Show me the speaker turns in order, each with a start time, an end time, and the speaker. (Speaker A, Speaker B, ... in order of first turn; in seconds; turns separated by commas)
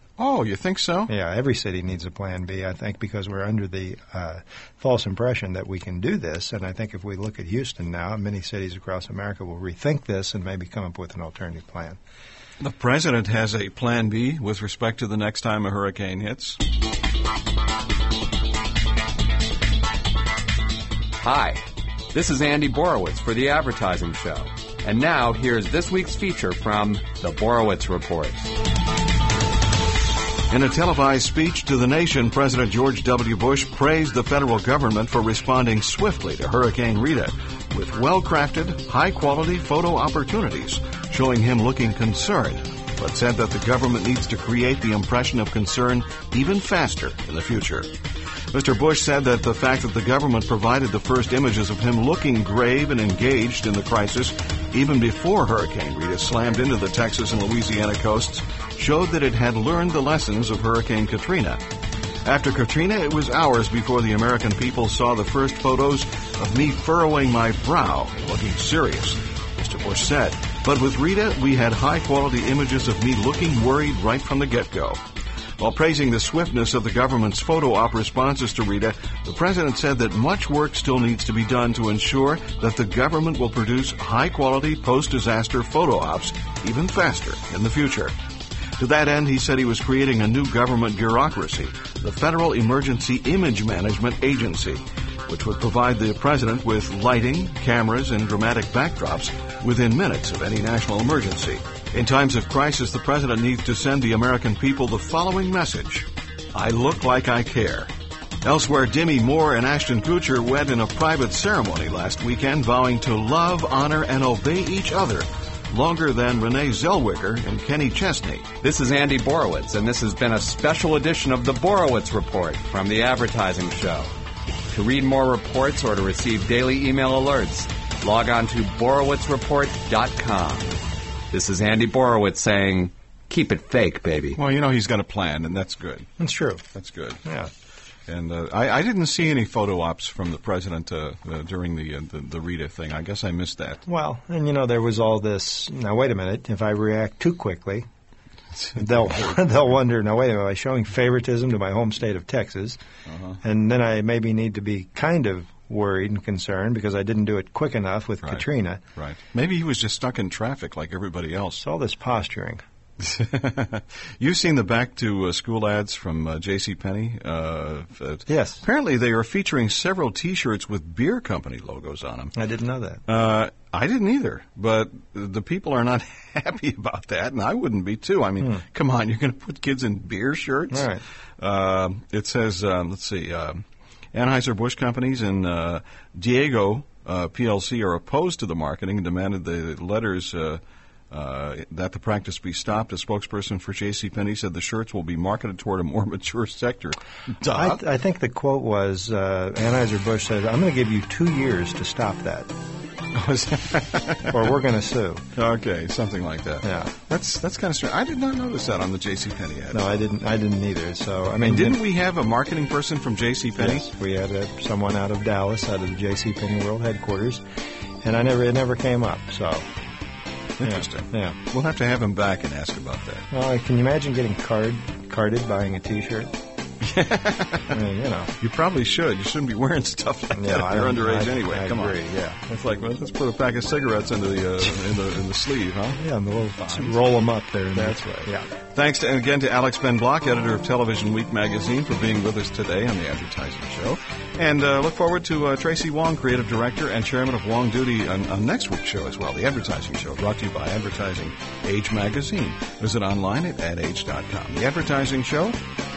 Speaker A: 0.2-1.1, Speaker B: 1.1-12.0, Speaker A: 12.6-16.6, Speaker C: 21.2-28.5, Speaker A: 30.5-47.9, Speaker A: 48.5-61.6, Speaker A: 62.2-75.0, Speaker A: 75.6-88.1, Speaker A: 88.8-107.9, Speaker A: 108.4-118.5, Speaker C: 118.6-124.1, Speaker C: 124.7-130.7, Speaker C: 131.3-134.4, Speaker A: 134.3-136.1, Speaker B: 136.2-136.6, Speaker A: 136.7-137.2, Speaker A: 138.1-143.8, Speaker B: 143.8-147.9, Speaker A: 148.6-149.4, Speaker B: 148.8-152.8, Speaker A: 153.1-153.4, Speaker B: 153.4-158.8, Speaker A: 158.9-161.6, Speaker B: 161.6-162.6, Speaker A: 163.0-172.3, Speaker B: 168.3-168.6, Speaker B: 172.3-173.0, Speaker A: 173.1-183.6, Speaker B: 180.7-181.0, Speaker A: 184.1-197.8, Speaker B: 197.5-202.5, Speaker A: 203.1-204.6, Speaker B: 204.3-205.2, Speaker A: 205.3-210.0, Speaker B: 206.6-206.9, Speaker B: 209.7-211.8, Speaker A: 211.4-213.8, Speaker B: 213.6-217.4, Speaker B: 218.0-219.6, Speaker A: 220.6-223.2, Speaker B: 220.6-221.4, Speaker B: 223.3-226.3, Speaker A: 226.8-227.8, Speaker B: 227.7-228.3, Speaker A: 228.4-232.0, Speaker B: 230.3-232.4, Speaker A: 232.5-236.0, Speaker B: 236.0-238.5, Speaker A: 236.6-237.0, Speaker A: 237.7-255.6